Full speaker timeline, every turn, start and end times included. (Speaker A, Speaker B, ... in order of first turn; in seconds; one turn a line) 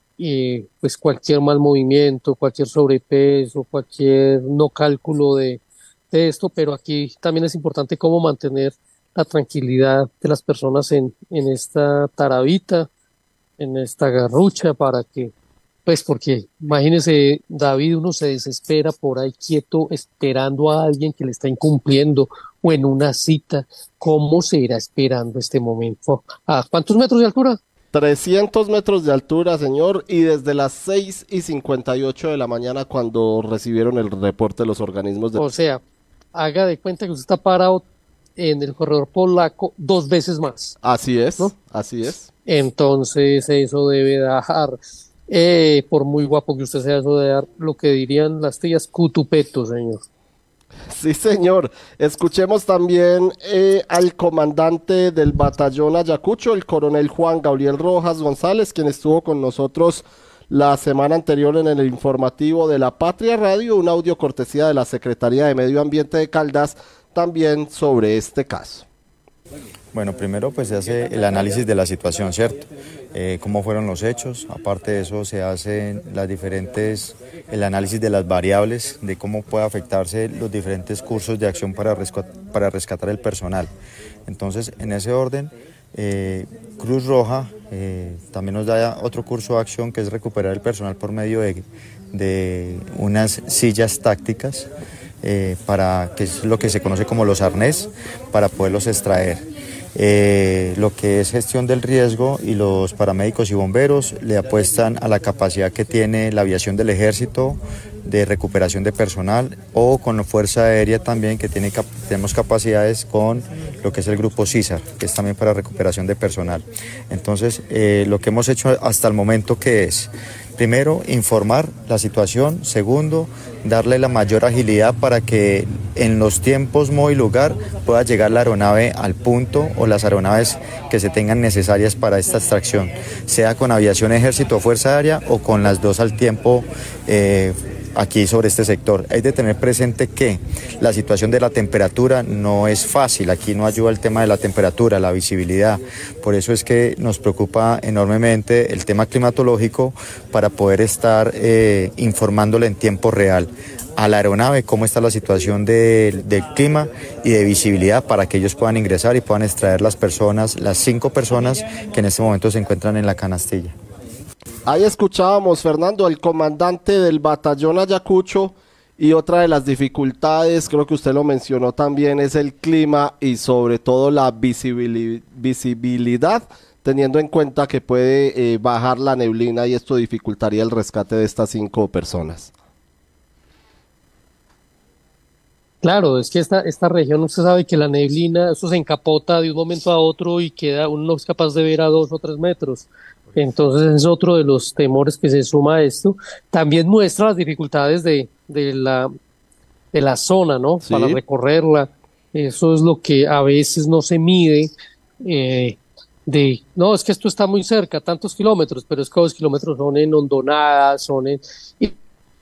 Speaker A: 0.2-5.6
Speaker A: 6.1-12.9
Speaker A: 13.6-15.3
Speaker A: 15.9-27.6
Speaker B: 27.9-35.5
Speaker A: 35.4-35.8
Speaker A: 36.4-37.8
Speaker A: 38.4-40.8
Speaker B: 40.8-42.3
Speaker A: 42.5-44.8
Speaker A: 45.3-50.0
Speaker B: 50.9-68.9
Speaker C: 69.9-83.7
Speaker C: 84.3-94.7
Speaker C: 95.2-99.4
Speaker C: 100.0-163.8
Speaker B: 164.7-182.5
Speaker A: 185.8-199.1
Speaker A: 199.9-204.7
Speaker B: 200.8-201.2
Speaker A: 205.2-211.9